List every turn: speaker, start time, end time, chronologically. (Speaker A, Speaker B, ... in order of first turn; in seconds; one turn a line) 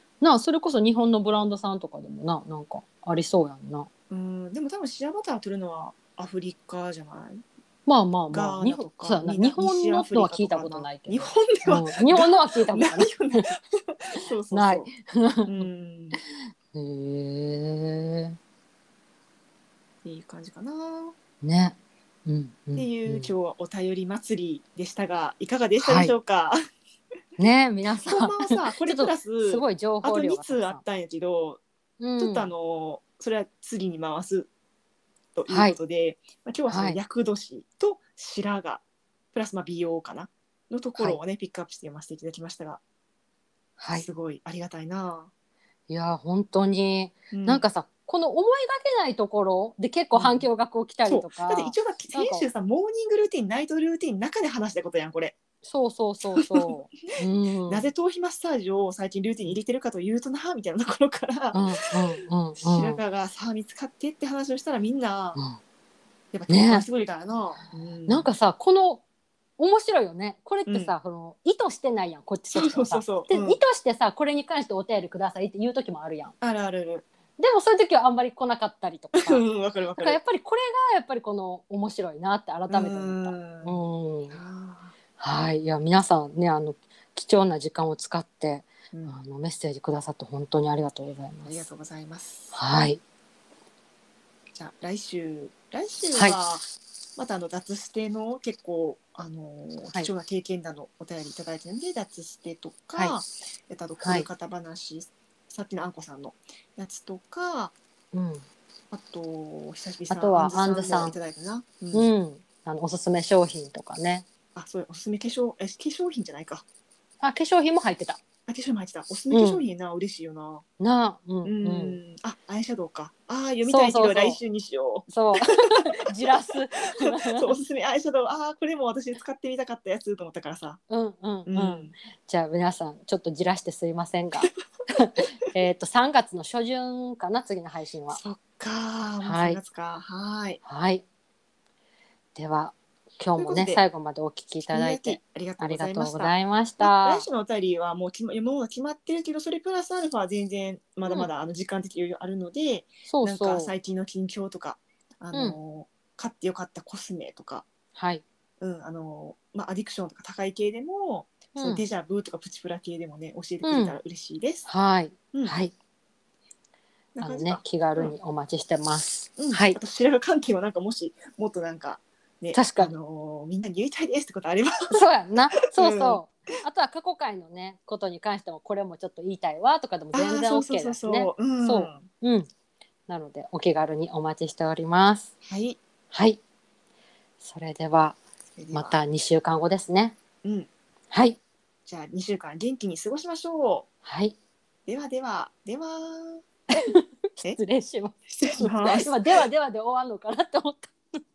Speaker A: 0.2-3.9
Speaker B: 4.1-7.4
Speaker A: 7.8-13.5
Speaker B: 8.3-14.9
Speaker A: 14.5-16.1
Speaker B: 15.5-16.2
Speaker A: 16.7-18.4
Speaker B: 20.0-21.1
Speaker A: 21.4-21.7
Speaker A: 22.3-23.3
Speaker B: 22.8-26.6
Speaker A: 25.8-26.1
Speaker A: 27.4-30.8
Speaker B: 28.0-31.6
Speaker A: 32.0-32.5
Speaker B: 32.2-34.5
Speaker B: 35.3-42.8
Speaker A: 35.5-35.8
Speaker A: 36.7-37.0
Speaker A: 43.8-44.1
Speaker B: 43.9-45.3
Speaker A: 45.9-52.5
Speaker B: 47.3-47.6
Speaker B: 50.1-50.5
Speaker B: 51.0-55.4
Speaker A: 55.6-57.9
Speaker B: 56.3-61.6
Speaker A: 61.5-63.0
Speaker B: 62.6-65.4
Speaker B: 66.3-68.3
Speaker A: 66.5-66.8
Speaker A: 68.1-69.0
Speaker A: 69.6-76.3
Speaker B: 70.7-70.9
Speaker B: 72.5-73.6
Speaker B: 76.4-77.0
Speaker A: 77.4-79.4
Speaker B: 79.1-80.2
Speaker A: 80.0-84.4
Speaker B: 82.7-83.8
Speaker B: 84.3-84.9
Speaker A: 85.2-91.7
Speaker B: 88.9-89.2
Speaker B: 91.4-92.5
Speaker A: 92.5-93.0
Speaker B: 94.5-107.7
Speaker A: 104.0-104.3
Speaker A: 108.1-108.4
Speaker B: 108.9-112.1
Speaker A: 110.1-111.2
Speaker A: 111.9-114.2
Speaker B: 114.5-116.6
Speaker A: 117.2-118.2
Speaker B: 118.5-120.6
Speaker A: 119.3-119.6
Speaker A: 120.8-122.0
Speaker B: 121.4-130.8
Speaker A: 123.6-124.4
Speaker A: 125.1-127.6
Speaker A: 130.9-138.2
Speaker B: 131.4-131.9
Speaker B: 138.1-140.6
Speaker A: 139.2-139.6
Speaker A: 140.6-141.0
Speaker A: 142.3-147.3
Speaker B: 143.4-143.8
Speaker B: 144.7-157.7
Speaker A: 153.0-153.7
Speaker A: 157.9-158.2
Speaker B: 158.6-164.7
Speaker A: 161.5-161.8
Speaker A: 163.6-164.0
Speaker A: 164.7-165.7
Speaker B: 167.2-168.1
Speaker A: 167.2-169.8
Speaker B: 169.4-175.0
Speaker A: 172.5-172.9
Speaker A: 174.9-182.5
Speaker B: 175.7-176.2
Speaker B: 180.1-182.1
Speaker A: 183.1-185.3
Speaker B: 185.4-185.8
Speaker A: 186.1-186.4
Speaker A: 187.4-188.2
Speaker B: 188.6-189.0
Speaker A: 188.7-190.2
Speaker B: 190.4-190.7
Speaker A: 191.1-191.4
Speaker B: 191.8-193.9
Speaker A: 194.0-194.3
Speaker B: 194.9-196.4
Speaker A: 196.7-201.2
Speaker B: 198.3-199.4